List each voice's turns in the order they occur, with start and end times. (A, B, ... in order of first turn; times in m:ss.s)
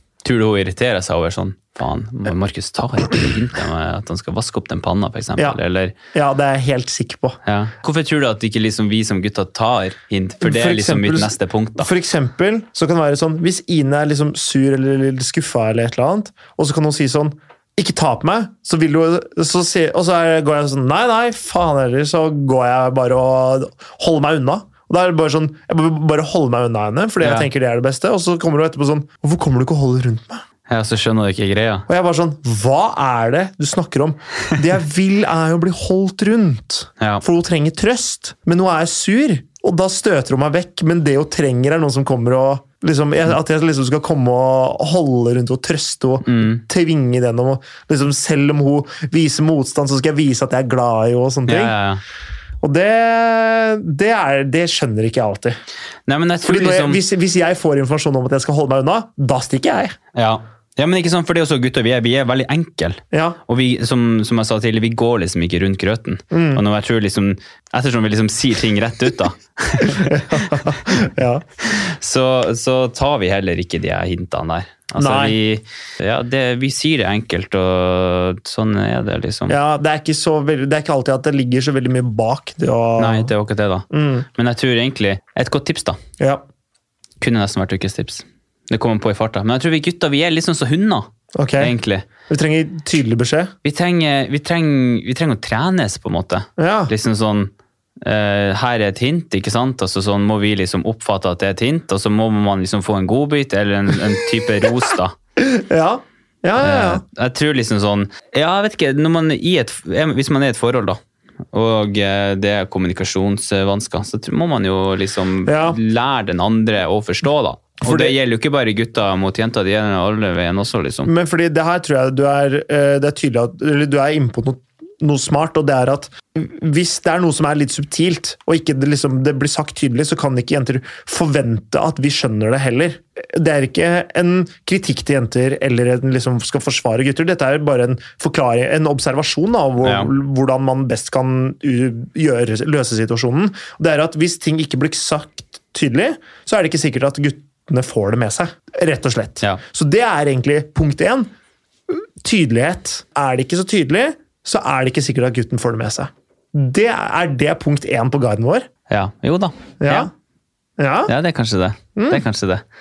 0:00.2-0:05.9 A
0:06.1-0:07.4 B
0:07.4-0:11.9 A
0:10.4-0:30.4 B
0:27.2-0:27.5 A
0:30.7-0:31.9 A
0:31.9-0:51.7 B
0:46.2-0:46.6 A
0:51.5-0:52.0 A
0:52.6-0:55.6 B
0:56.1-0:57.0 A
0:56.4-0:59.9 B
1:00.1-1:10.7 A
1:03.1-1:03.4 B
1:06.3-1:06.6 B
1:09.8-1:11.4 B
1:11.6-1:19.6 A
1:15.0-1:15.4 B
1:19.5-1:23.3 B
1:23.0-1:26.0 A
1:23.9-1:24.2 B
1:27.2-1:31.1 A
1:31.3-1:31.7 B
1:31.6-1:32.1 A
1:32.3-1:33.5 B
1:33.6-1:45.1 A
1:36.6-1:36.9 B
1:45.4-1:47.0 B
1:46.6-1:51.0 A
1:51.5-2:01.1 A
1:55.4-1:55.8 B
1:57.8-1:58.1 B
2:01.0-2:31.3 B
2:19.8-2:20.1 A
2:31.9-2:38.7 B
2:38.9-2:40.1 A
2:39.8-2:40.1 B
2:40.8-2:41.1 B
2:41.1-2:42.6 A
2:42.0-2:42.2 B